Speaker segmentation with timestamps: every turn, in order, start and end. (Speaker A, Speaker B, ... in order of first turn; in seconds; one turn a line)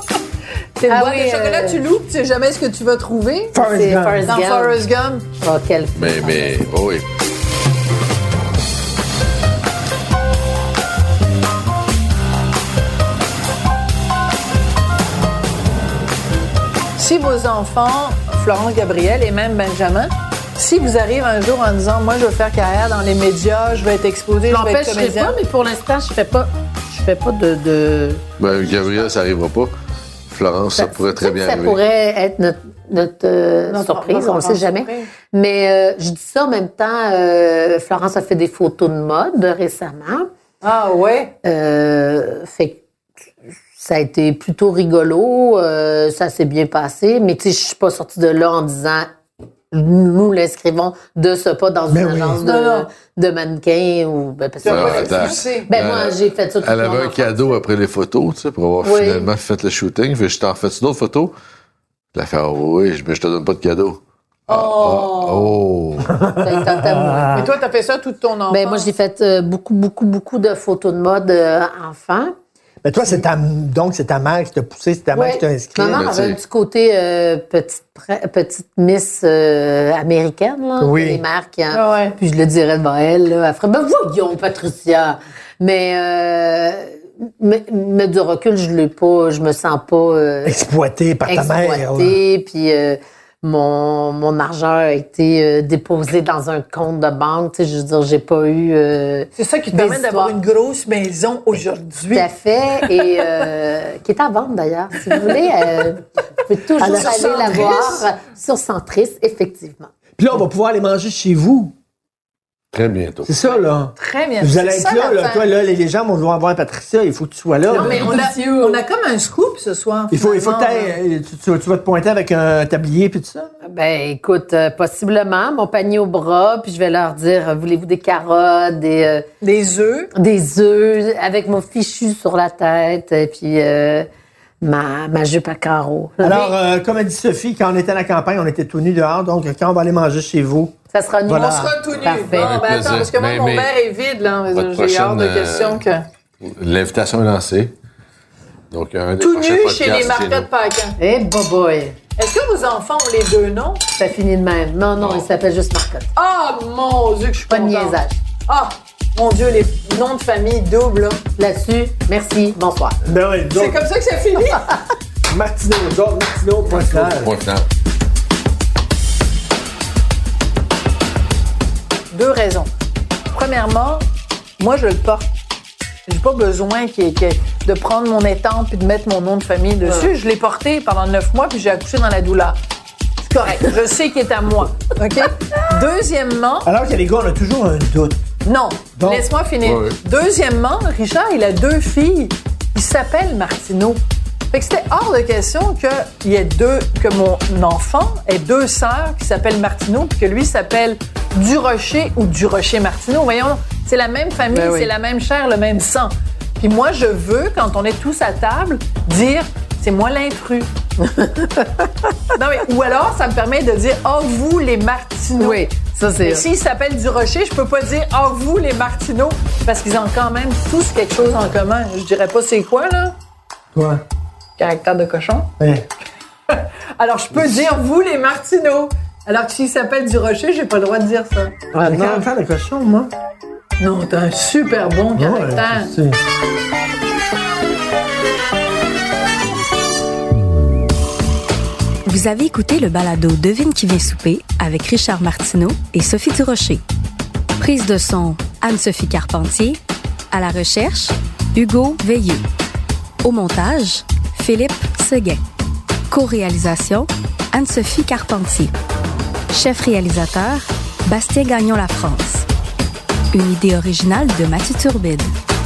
Speaker A: 0.8-3.6
Speaker B: 0.8-1.8
Speaker C: 3.5-4.3
Speaker B: 3.6-4.8
Speaker A: 4.3-5.3
Speaker B: 5.4-6.6
Speaker D: 6.0-7.0
Speaker A: 17.0-25.4
Speaker B: 24.5-29.0
Speaker D: 28.4-29.7
Speaker D: 30.3-31.8
Speaker B: 30.8-40.3
Speaker A: 33.7-35.1
Speaker A: 40.6-41.3
Speaker B: 41.4-42.8
Speaker B: 43.8-49.1
Speaker B: 49.7-57.6
Speaker C: 51.9-52.4
Speaker A: 52.4-52.9
Speaker A: 54.6-55.7
Speaker D: 54.6-61.3
Speaker B: 58.8-59.3
Speaker D: 62.1-66.1
Speaker A: 64.5-65.5
Speaker C: 66.1-67.5
Speaker B: 66.4-67.4
Speaker A: 67.3-68.9
Speaker B: 68.5-72.3
Speaker C: 72.8-76.1
Speaker B: 75.1-90.6
Speaker D: 75.9-76.4
Speaker C: 80.8-81.2
Speaker A: 81.7-82.2
Speaker C: 90.5-92.2
Speaker B: 91.3-100.4
Speaker A: 99.4-102.3
Speaker B: 102.1-109.9
Speaker C: 106.8-107.8
Speaker A: 106.8-108.1
Speaker C: 110.2-111.8
Speaker D: 112.7-113.5
Speaker C: 113.2-118.1
Speaker A: 114.0-115.5
Speaker B: 117.7-118.8
Speaker A: 117.7-120.9
Speaker C: 120.1-123.5
Speaker B: 123.6-129.2
Speaker A: 129.4-130.1
Speaker B: 130.2-134.1
Speaker B: 134.6-136.5
Speaker C: 136.2-140.8
Speaker B: 140.9-142.5
Speaker C: 141.3-141.8
Speaker A: 141.4-146.0
Speaker D: 142.3-143.7
Speaker D: 144.5-145.8
Speaker D: 146.4-147.7
Speaker D: 148.7-150.5
Speaker A: 149.2-151.0
Speaker B: 151.0-152.0
Speaker A: 152.2-153.8
Speaker B: 154.0-156.1
Speaker D: 155.0-155.3
Speaker A: 156.2-161.2
Speaker B: 157.5-158.2
Speaker B: 161.4-163.0
Speaker C: 163.0-163.8
Speaker A: 163.5-164.7
Speaker C: 165.3-167.3
Speaker D: 166.7-167.7
Speaker A: 172.1-172.7
Speaker A: 173.3-174.1
Speaker A: 174.6-175.3
Speaker A: 176.1-182.6
Speaker B: 179.8-180.1
Speaker A: 183.2-186.7
Speaker C: 186.6-188.3
Speaker A: 188.4-210.7
Speaker C: 189.0-189.3
Speaker D: 189.6-190.0
Speaker B: 204.5-204.9
Speaker B: 211.0-211.9
Speaker A: 212.3-215.7
Speaker B: 215.4-216.4
Speaker A: 216.2-223.2
Speaker C: 223.7-224.0
Speaker A: 224.6-225.5
Speaker C: 225.6-225.9
Speaker A: 226.5-231.6
Speaker B: 231.7-232.3
Speaker C: 231.8-233.1
Speaker A: 233.8-235.9
Speaker C: 235.2-236.2
Speaker E: 242.1-246.8
Speaker E: 247.6-249.8
Speaker E: 250.3-252.5
Speaker E: 253.2-255.4
Speaker E: 256.1-258.7
Speaker E: 259.5-262.5
Speaker E: 263.3-265.3